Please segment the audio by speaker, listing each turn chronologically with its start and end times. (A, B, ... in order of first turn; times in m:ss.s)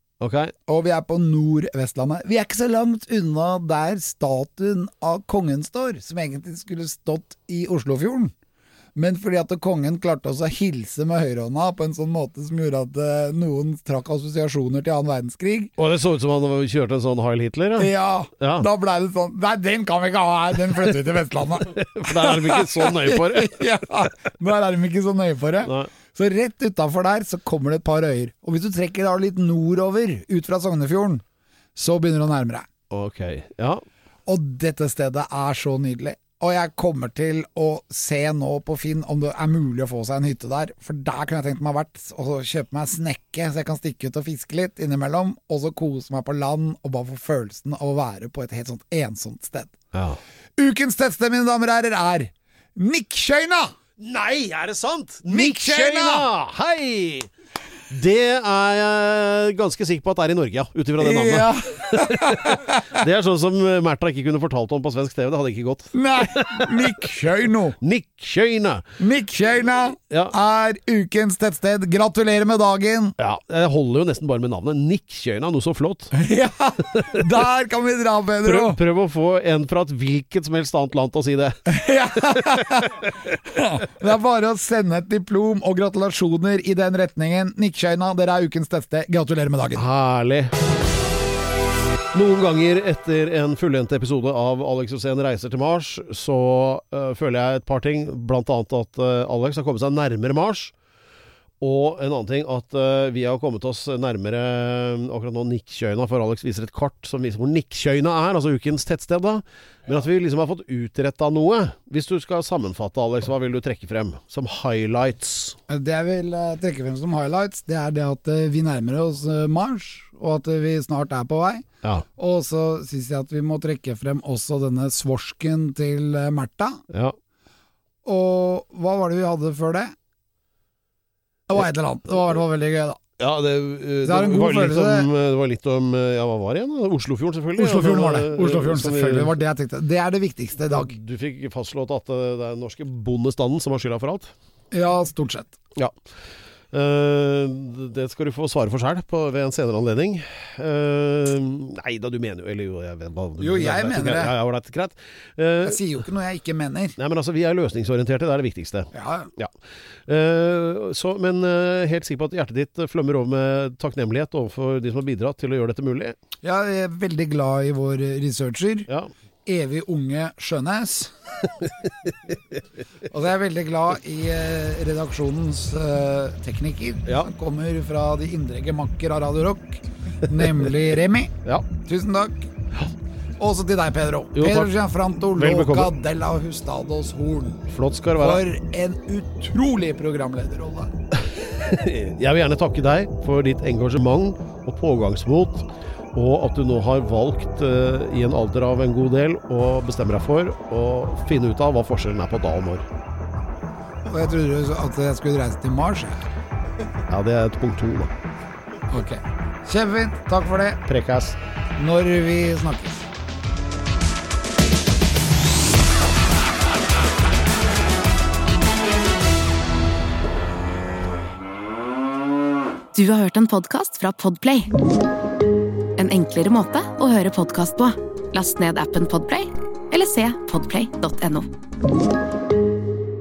0:00.2-0:00.5 A
0:00.7-0:08.3 B
0:09.0-0:15.7 B
0:15.8-0:18.7 A
0:17.8-0:31.2 B
0:21.6-0:23.6 A
0:25.6-0:25.9 A
0:31.8-0:32.7 B
0:32.9-0:33.8 A
0:34.3-0:49.7 B
0:49.9-0:50.2 A
0:50.6-0:53.7 B
0:54.0-0:57.3 A
0:55.3-0:56.3 B
0:57.9-1:07.0 A
1:01.0-1:03.0 B
1:05.9-1:07.8 B
1:07.8-1:08.8 A
1:09.0-1:13.1 B
1:13.2-1:16.1 A
1:16.1-1:18.8 B
1:18.4-1:21.6 A
1:21.6-1:29.8 B
1:22.2-1:23.0 A
1:29.7-1:30.5 A
1:32.1-1:40.7 A
1:41.6-1:55.6 A
1:55.7-2:01.6 B
2:02.2-2:06.8 B
2:06.9-2:07.2 A
2:08.0-2:09.9 B
2:11.5-2:13.0 B
2:13.2-2:19.3 A
2:14.0-2:15.1 B
2:17.6-2:20.9 B
2:20.7-2:24.3 A
2:24.7-2:25.6 B
2:26.7-2:36.0 A
2:33.4-2:34.3 B
2:35.6-2:37.0 B
2:37.0-2:39.5 A
2:38.9-2:39.3 B
2:40.1-2:46.2 A
2:46.4-2:48.9 B
2:49.4-2:51.1 B
2:51.6-2:52.4 A
2:53.1-3:02.5 B
3:00.4-3:00.7 A
3:03.4-3:10.9 B
3:04.3-3:04.7 A
3:05.3-3:05.9 A
3:07.7-3:08.4 A
3:11.1-3:22.9 A
3:24.0-3:26.3 B
3:27.1-3:28.1 A
3:28.9-3:30.8 B
3:30.9-3:31.4 A
3:31.8-3:33.0 B
3:42.9-3:44.7 C
3:46.0-3:51.5 C